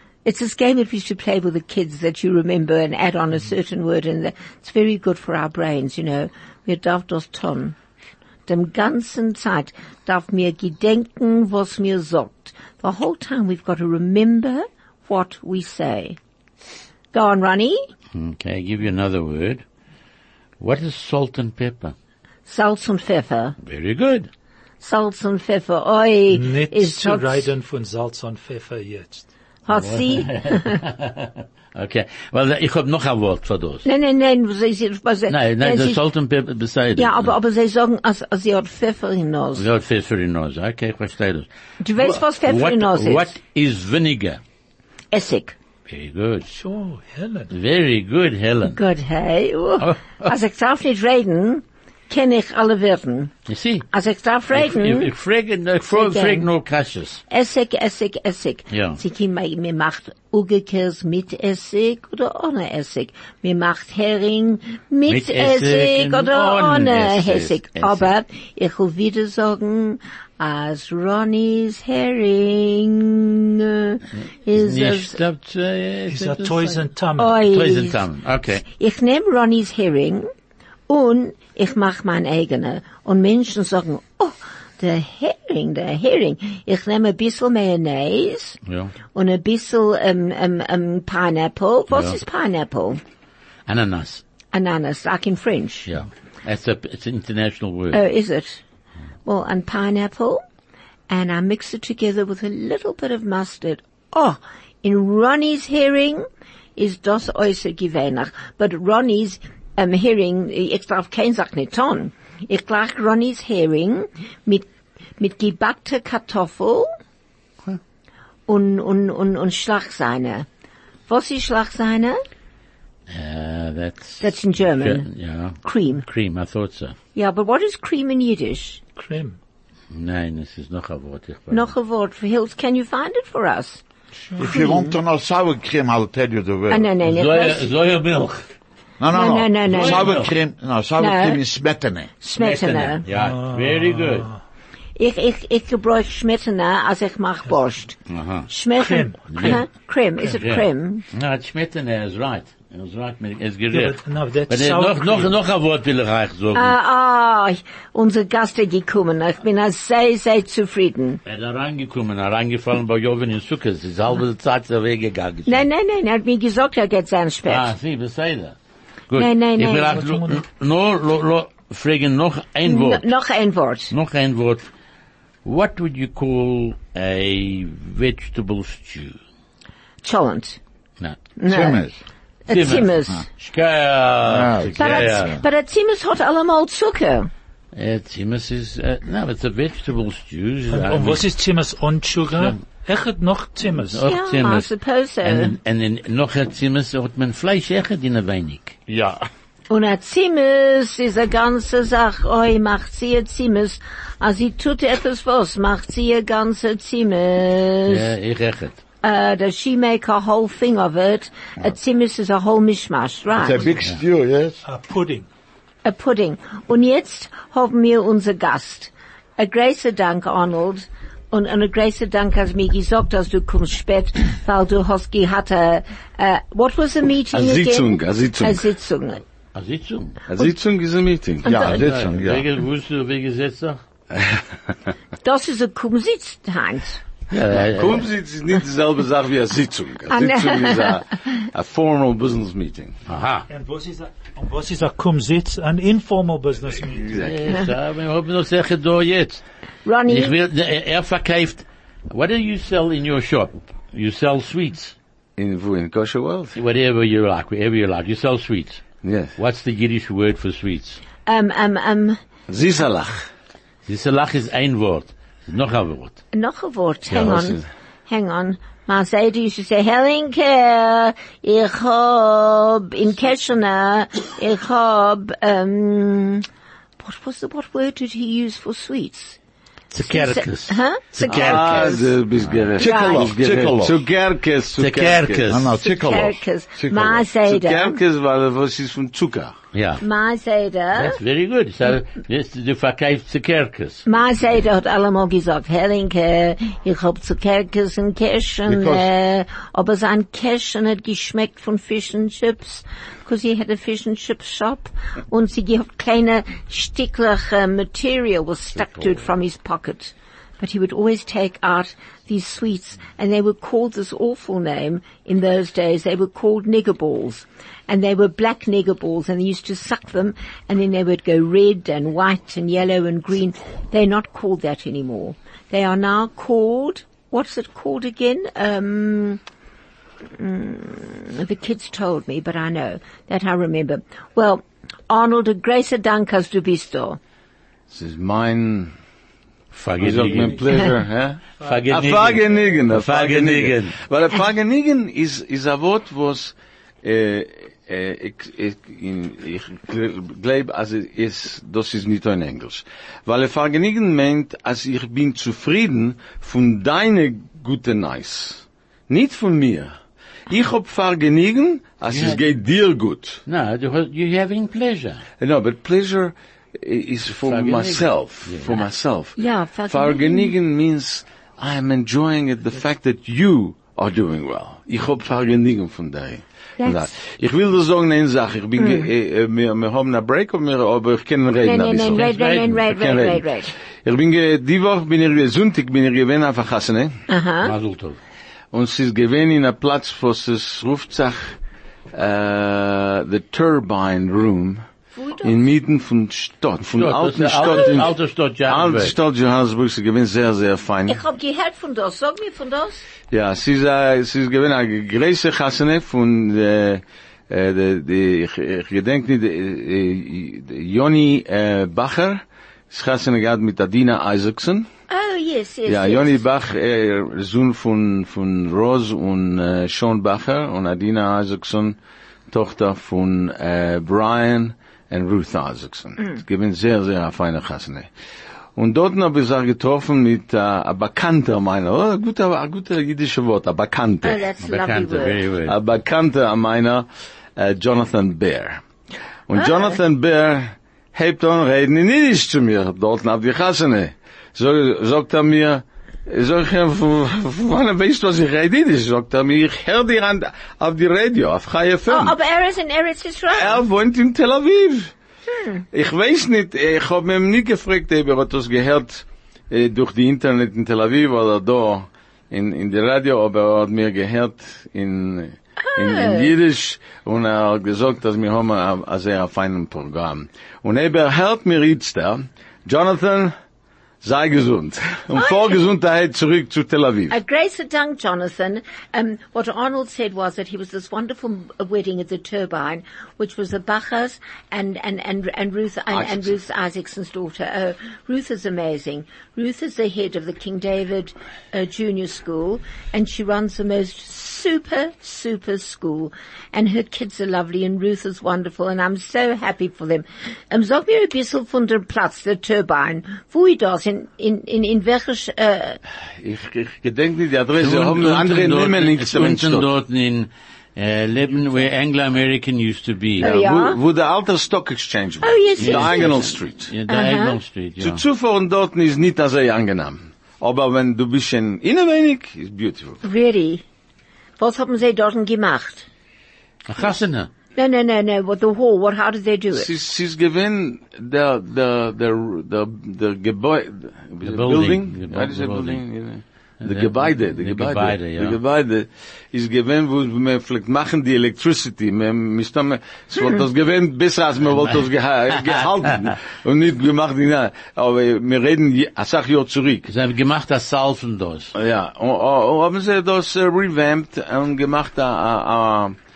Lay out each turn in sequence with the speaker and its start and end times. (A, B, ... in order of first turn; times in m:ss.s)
0:00.2-0:07.8 A
0:08.5-0:16.2 A
0:17.1-0:17.8 A
0:18.1-0:19.6 B
0:20.6-0:21.9 B
0:22.5-0:23.6 A
0:23.6-0:24.3 B
0:24.8-0:27.5 A
0:26.3-0:29.2 C
0:29.6-0:30.8 A
0:29.7-0:33.8 B
0:33.8-0:36.0 A
0:35.3-0:37.3 B
0:37.0-0:39.6 A
0:39.6-0:44.4 B
0:41.8-0:43.3 A
0:45.1-0:45.5 A
0:45.9-0:46.5 B
0:46.5-0:47.5 C
0:47.5-0:48.8 B
0:48.7-0:53.3 A
0:49.8-0:50.3 B
0:53.5-0:53.9 B
0:53.9-0:55.1 A
0:54.5-0:57.2 B
0:55.9-0:56.4 A
0:57.3-1:15.2 A
0:58.7-0:59.0 B
1:05.1-1:08.1 B
1:14.2-1:16.8 B
1:16.1-1:17.4 C
1:17.2-1:18.0 A
1:17.4-1:18.6 B
1:18.6-1:20.3 A
1:20.9-1:28.6 A
1:28.6-1:28.9 B
1:29.1-1:33.0 A
1:31.9-1:32.2 B
1:33.7-1:34.2 B
1:34.5-1:35.9 A
1:35.9-1:38.0 B
1:37.9-1:38.6 A
1:39.2-1:40.4 A
1:41.1-1:46.2 A
1:46.8-1:54.6 A
1:55.2-1:56.9 A
1:58.5-2:00.5 A
2:01.1-2:02.2 A
2:03.1-2:07.0 B
2:04.2-2:05.1 A
2:05.6-2:06.0 A
2:07.1-2:08.8 A
2:09.0-2:09.4 C
2:09.9-2:11.7 B
2:11.5-2:13.8 A
2:14.2-2:14.5 C
2:14.4-2:16.9 D
2:14.4-2:15.0 A
2:16.7-2:17.7 A
2:17.0-2:18.4 B
2:19.0-2:22.1 D
2:19.1-2:20.1 A
2:19.7-2:20.3 B
2:21.0-2:21.4 A
2:22.2-2:23.0 A
2:22.4-2:24.3 B
2:23.1-2:24.4 C
2:25.0-2:28.0 A
2:28.1-2:28.5 B
2:28.5-2:31.0 A
2:28.8-2:29.6 C
2:29.3-2:29.6 B
2:30.3-2:36.7 B
2:33.7-2:35.3 C
2:36.5-2:41.2 A
2:41.2-2:45.7 B
2:45.5-2:47.7 A
2:47.5-2:48.6 B
2:49.1-2:53.1 B
2:49.1-2:50.0 A
2:49.8-2:50.4 C
2:52.6-2:53.9 A
2:53.9-2:54.6 B
2:55.4-2:59.2 B
3:00.0-3:00.6 A
3:01.4-3:01.8 A
3:01.5-3:01.9 D
3:02.5-3:03.2 A
3:02.5-3:05.4 B
3:04.2-3:05.4 D
3:04.8-3:07.3 A
3:07.7-3:11.2 B
3:10.7-3:14.0 C
3:12.3-3:12.6 B
3:13.7-3:14.7 B
3:14.0-3:15.5 A
3:15.2-3:18.8 B
3:18.9-3:19.3 D
3:19.7-3:28.1 A
3:27.9-3:28.8 B
3:29.0-3:33.7 A
3:33.3-3:34.6 D
3:34.6-3:35.3 C
3:35.8-3:49.2 A
3:47.3-3:48.7 E
3:49.5-3:50.2 B
3:50.3-3:51.6 E
3:51.4-3:52.5 D
3:51.4-3:51.8 A
3:51.6-3:53.8 B
3:55.2-3:57.0 A
3:57.3-3:58.1 B
3:57.5-4:03.0 E
4:00.1-4:01.0 A
4:03.1-4:03.5 B
4:03.5-4:07.2 C
4:07.1-4:07.5 E
4:07.2-4:09.4 B
4:09.8-4:10.4 A
4:10.1-4:14.9 B
4:15.4-4:16.6 E
4:16.5-4:18.8 B
4:19.0-4:19.3 E
4:19.4-4:21.0 B
4:21.2-4:22.2 A
4:22.5-4:23.3 E
4:23.8-4:26.2 B
4:26.3-4:36.4 A
4:27.1-4:27.6 E
4:37.0-4:39.4 A
4:39.9-4:42.6 B
4:40.0-4:42.1 A
4:41.3-4:45.5 E
4:42.7-4:44.0 D
4:42.8-4:43.3 A
4:44.8-4:45.7 B
4:45.5-4:47.3 D
4:45.7-4:48.0 A
4:47.4-4:49.6 E
4:49.7-4:50.0 B
4:50.0-4:51.2 A
4:50.9-4:54.0 B
4:54.0-5:29.4 A
4:58.7-4:59.1 D
5:30.4-5:37.2 A
5:37.9-5:38.9 E
5:39.7-5:40.9 B
5:40.0-6:00.0 E
5:40.1-5:40.8 C
5:41.6-5:44.0 B
6:00.5-6:03.4 E
6:02.1-6:02.4 B
6:03.5-6:05.2 B
6:05.4-6:09.4 E
6:07.3-6:08.8 B
6:09.4-6:10.5 A
6:09.9-6:23.4 E
6:16.8-6:17.1 A
6:18.8-6:19.1 A
6:21.6-6:23.7 A
6:22.1-6:22.8 B
6:24.0-6:27.2 E
6:27.3-6:27.7 A
6:27.6-6:28.2 B
6:28.7-6:31.6 E
6:32.1-6:34.8 E
6:35.1-6:35.7 A
6:35.4-6:41.2 E
6:36.8-6:39.2 B
6:37.7-6:38.0 A
6:41.1-6:43.0 A
6:43.3-6:54.9 E
6:55.1-6:56.4 A
6:55.8-7:02.0 E
7:02.5-7:08.1 E
7:08.8-7:14.4 E
7:14.2-7:15.4 A
7:14.6-7:15.8 B
7:15.6-7:18.8 E
7:19.5-7:32.4 E
7:19.6-7:20.0 A
7:32.1-7:33.8 A
7:33.5-7:35.1 E
7:35.6-7:35.8 A
7:35.9-7:53.5 E
7:45.8-7:46.5 A
7:54.2-7:57.4 E
7:55.3-7:55.8 A
7:57.3-8:26.0 A
8:06.1-8:06.5 E
8:26.4-8:29.9 E
8:27.8-8:33.5 B
8:33.4-8:34.0 A
8:33.4-8:36.9 E
8:35.4-8:36.4 A
8:35.8-8:38.2 B
8:37.1-8:37.6 A
8:38.0-8:43.2 E
8:43.2-8:43.8 A
8:44.6-8:46.1 A
8:46.9-8:47.5 B
8:47.7-8:49.9 A
8:49.7-9:10.1 E
8:54.4-8:56.0 B
8:56.8-8:58.6 B
9:04.7-9:05.0 B
9:05.6-9:06.2 B
9:10.1-9:11.7 B
9:11.7-9:16.2 E